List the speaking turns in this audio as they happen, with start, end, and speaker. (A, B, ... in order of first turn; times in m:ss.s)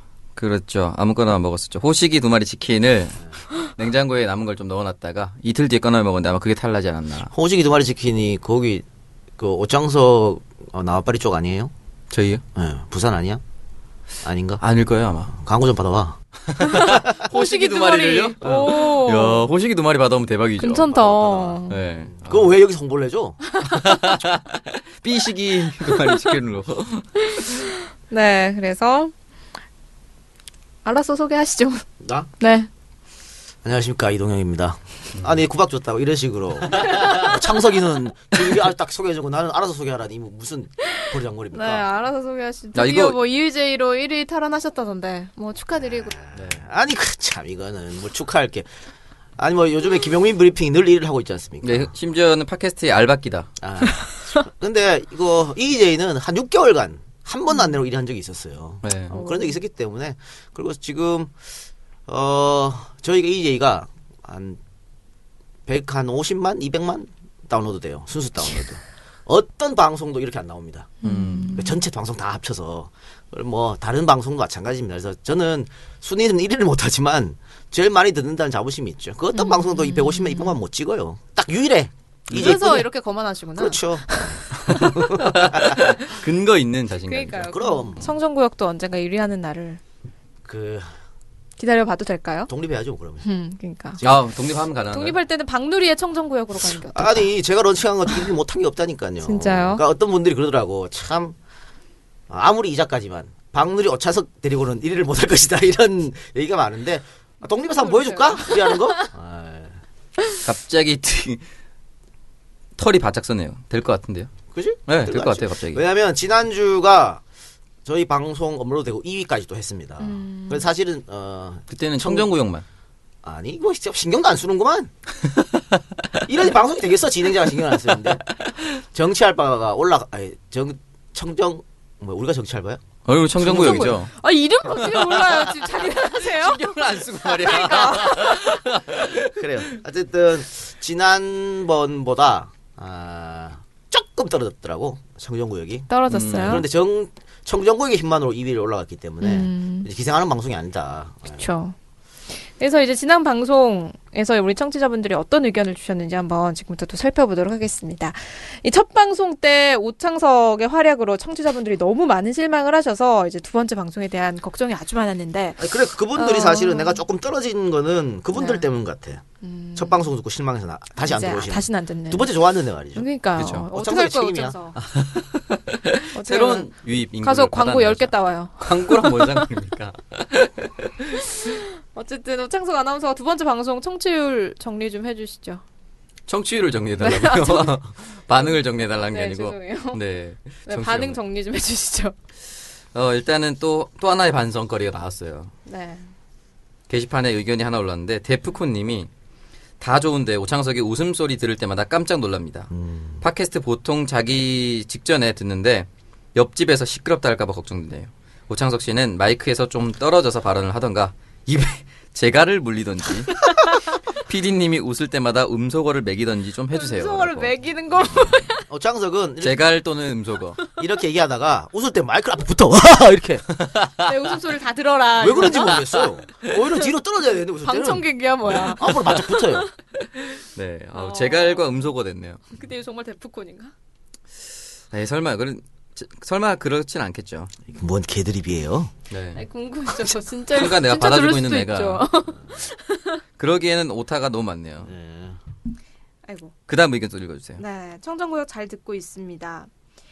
0:00.4-0:07.3 A
0:07.3-0:08.8 B
0:09.4-0:11.7 B
0:12.1-0:12.4 A
0:12.6-0:13.4 B
0:14.2-0:14.6 B
0:14.6-0:15.4 A
0:15.3-0:16.2 B
0:16.5-0:22.5 A
0:16.6-0:19.4 C
0:18.4-0:18.7 B
0:20.6-0:21.8 C
0:21.2-0:21.6 B
0:22.2-0:23.4 B
0:23.6-0:27.6 A
0:27.3-0:29.1 C
0:30.8-0:31.8 C
0:32.0-0:32.3 B
0:32.4-0:32.7 C
0:33.6-0:41.9 B
0:35.2-0:35.4 A
0:40.8-0:46.1 C
0:42.8-0:43.2 A
0:45.8-0:48.7 B
0:46.4-0:46.6 A
0:49.4-0:51.9 B
0:51.6-0:53.6 A
0:53.6-1:01.3 B
0:58.8-0:59.1 A
0:59.1-0:59.6 C
1:02.1-1:04.6 B
1:05.7-1:11.0 B
1:11.0-1:11.8 C
1:11.0-1:11.6 A
1:11.5-1:22.9 B
1:19.3-1:20.6 C
1:22.3-1:25.2 C
1:23.6-1:25.8 B
1:24.6-1:27.5 A
1:27.1-1:29.8 C
1:27.5-1:28.1 B
1:30.4-1:30.9 B
1:31.6-1:32.5 C
1:32.5-1:33.2 B
1:33.2-1:34.0 C
1:34.0-1:34.3 B
1:34.0-1:35.2 A
1:34.9-1:37.3 C
1:36.9-1:41.4 B
1:39.2-1:39.8 C
1:42.3-1:49.8 B
1:47.6-1:49.1 C
1:50.4-1:51.4 A
1:52.8-1:54.3 A
1:54.5-1:57.2 B
1:54.9-1:55.8 A
1:57.8-2:02.3 B
2:00.0-2:00.7 C
2:01.7-2:02.6 A
2:03.2-2:04.9 B
2:06.2-2:12.8 B
2:13.1-2:14.1 A
2:13.4-2:18.6 C
2:13.4-2:13.9 B
2:14.8-2:19.3 A
2:19.3-2:31.5 B
2:25.9-2:26.6 C
2:26.1-2:26.6 A
2:29.2-2:29.9 C
2:31.4-2:31.8 C
2:32.3-2:47.0 C
2:45.6-2:49.2 B
2:48.3-2:48.7 C
2:49.4-2:50.0 C
2:49.8-2:53.1 B
2:51.0-2:52.3 C
2:53.0-2:54.8 C
2:53.4-2:53.7 A
2:53.7-2:54.6 B
2:54.8-3:01.0 A
2:56.1-2:59.5 C
3:01.2-3:05.6 C
3:06.3-3:11.2 A
3:07.0-3:10.0 C
3:10.7-3:12.2 C
3:12.9-3:15.5 A
3:15.7-3:16.1 C
3:16.9-3:19.1 A
3:19.8-3:33.5 A
3:22.7-3:23.2 B
3:34.2-3:37.5 A
3:36.7-3:38.7 C
3:38.7-3:39.6 B
3:39.4-3:40.6 A
3:40.8-3:43.5 B
3:43.6-3:44.1 A
3:44.0-3:45.9 C
3:45.2-3:48.1 B
3:47.6-3:49.7 C
3:48.8-3:49.7 B
3:48.9-3:49.2 A
3:50.6-3:52.4 A
3:50.9-3:51.7 C
3:52.5-3:53.7 C
3:54.9-3:57.6 A
3:57.7-3:58.9 B
3:59.1-3:59.4 A
3:59.4-4:03.2 C
4:00.5-4:02.1 A
4:03.4-4:04.9 A
4:04.8-4:05.4 B
4:06.3-4:06.5 C
4:06.7-4:07.6 A
4:07.6-4:09.7 C